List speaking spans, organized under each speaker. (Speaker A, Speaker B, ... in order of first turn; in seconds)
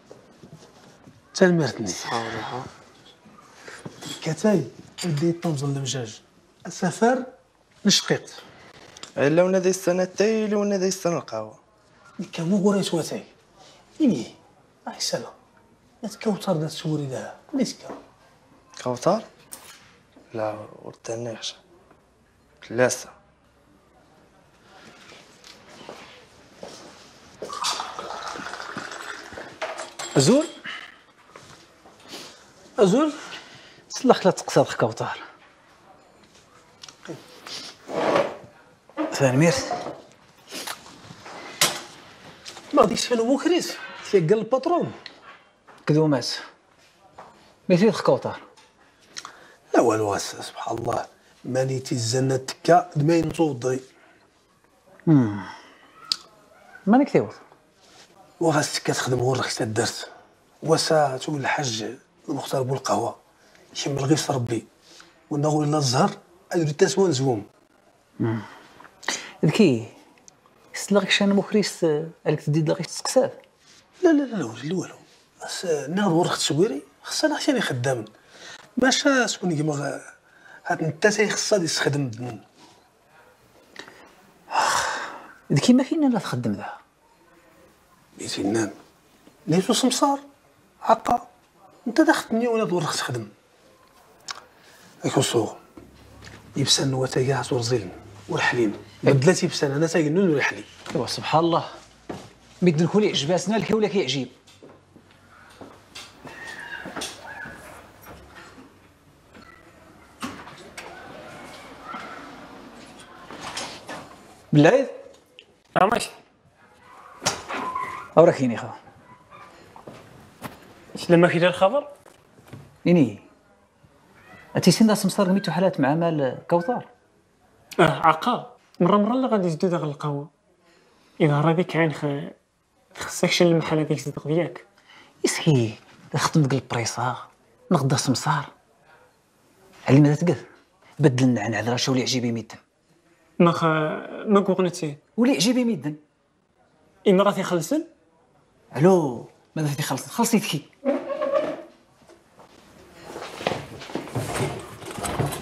Speaker A: 1.3-2.6, 4.2-7.3, 7.8-8.4, 12.2-13.3, 14.0-14.3, 14.8-15.3, 16.0-18.0, 32.8-33.1, 42.7-45.0, 49.7-53.8, 58.4-60.1, 60.6-63.1, 63.7-64.7, 65.3-67.5, 74.0-78.0, 78.8-80.0, 80.7-82.4, 88.2-88.7, 89.5-90.2, 90.8-91.2, 91.9-93.3, 95.0-95.6, 96.5-100.7
Speaker B: 9.2-11.6, 18.8-19.3, 20.3-21.6, 22.6-23.1
Speaker C: 30.2-30.5, 33.9-35.2, 39.1-39.7, 45.9-46.4, 47.7-48.4, 55.1-55.5, 56.9-57.4, 69.4-69.9, 70.7-73.4, 84.5-86.8, 100.9-101.7, 102.6-104.3, 114.5-114.9, 118.2-118.8, 122.8-123.2, 124.5-126.9, 135.2-138.5, 139.8-140.4, 141.0-142.6, 145.2-146.0, 148.7-150.7
Speaker D: 115.8-116.1, 121.0-121.9, 127.8-130.3, 131.2-132.3, 132.9-134.6, 143.4-145.0, 147.1-147.9